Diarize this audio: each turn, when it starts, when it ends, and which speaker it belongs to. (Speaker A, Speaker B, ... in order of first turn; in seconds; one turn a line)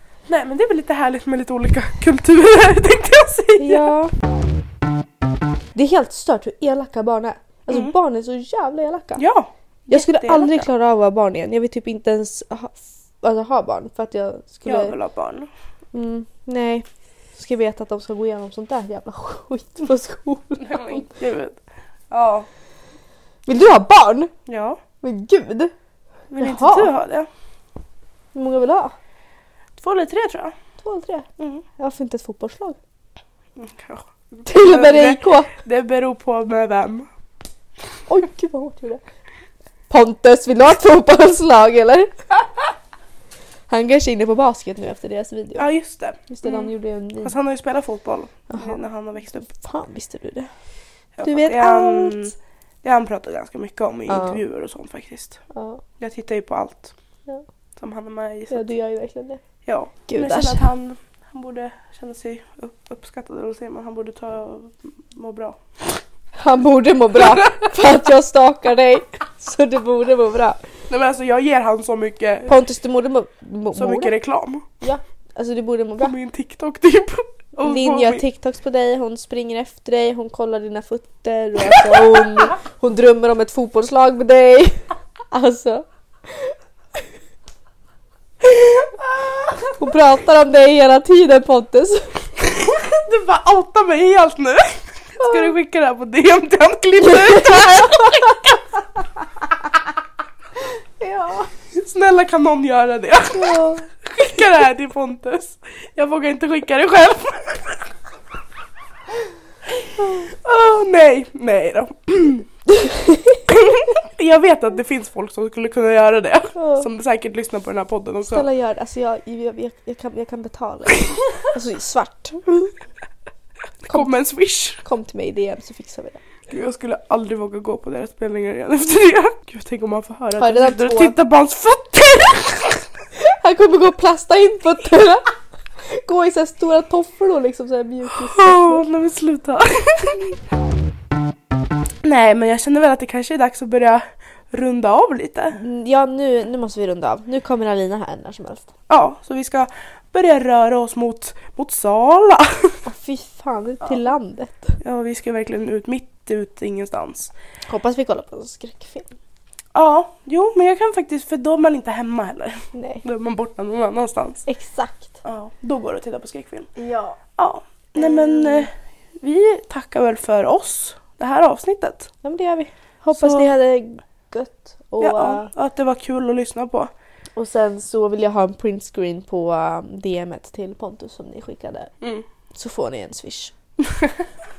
Speaker A: 0.3-3.9
Speaker B: 3.6-4.1
Speaker B: 5.7-9.2
Speaker A: 7.7-7.9
Speaker A: 9.2-10.7
Speaker B: 9.9-15.0
Speaker A: 14.7-15.5
Speaker B: 15.9-21.1
Speaker A: 20.6-21.6
Speaker A: 22.1-22.5
Speaker B: 23.5-24.3
Speaker A: 24.5-24.8
Speaker B: 25.0-25.7
Speaker A: 26.3-27.3
Speaker B: 26.4-26.9
Speaker B: 28.3-28.9
Speaker A: 29.8-30.5
Speaker B: 30.8-32.8
Speaker A: 31.4-31.6
Speaker A: 33.6-37.1
Speaker B: 34.5-35.5
Speaker B: 38.1-39.0
Speaker B: 39.9-42.4
Speaker B: 43.7-45.7
Speaker A: 45.6-49.5
Speaker B: 46.3-47.3
Speaker B: 48.5-48.8
Speaker B: 49.5-50.5
Speaker A: 51.2-55.4
Speaker B: 51.2-52.3
Speaker B: 54.1-54.4
Speaker B: 55.5-55.8
Speaker A: 56.0-56.9
Speaker A: 57.8-58.7
Speaker B: 58.5-59.4
Speaker A: 59.6-66.0
Speaker B: 60.1-60.7
Speaker B: 66.4-70.7
Speaker A: 67.2-67.6
Speaker A: 70.9-72.5
Speaker B: 72.5-74.1
Speaker A: 73.8-74.7
Speaker B: 74.8-76.2
Speaker A: 76.0-78.2
Speaker B: 77.6-86.5
Speaker A: 81.7-82.3
Speaker A: 89.2-89.6
Speaker B: 89.8-92.3
Speaker A: 92.6-98.6
Speaker B: 95.2-95.5
Speaker B: 97.0-98.5
Speaker B: 101.0-101.5
Speaker A: 101.7-107.9
Speaker B: 103.3-103.9
Speaker A: 110.0-112.5
Speaker B: 112.7-113.4
Speaker A: 113.5-118.5
Speaker B: 116.6-116.9
Speaker B: 118.2-122.8
Speaker A: 123.8-124.8
Speaker B: 123.9-124.1
Speaker B: 124.8-126.2
Speaker A: 126.5-132.9
Speaker B: 130.4-131.2
Speaker B: 133.2-135.3
Speaker B: 135.8-138.8
Speaker A: 138.1-140.3
Speaker A: 142.0-145.6
Speaker B: 145.5-148.7
Speaker A: 148.9-152.8
Speaker B: 152.8-154.8
Speaker A: 154.8-157.3
Speaker B: 157.7-159.2
Speaker A: 159.7-164.5
Speaker B: 162.7-163.0
Speaker B: 164.5-165.2
Speaker A: 165.2-166.7
Speaker B: 166.8-167.2
Speaker A: 167.4-172.1
Speaker B: 168.0-168.7
Speaker B: 172.2-175.5
Speaker A: 173.1-173.5
Speaker A: 175.0-176.9
Speaker B: 177.4-181.9
Speaker B: 182.5-183.5
Speaker A: 183.8-184.2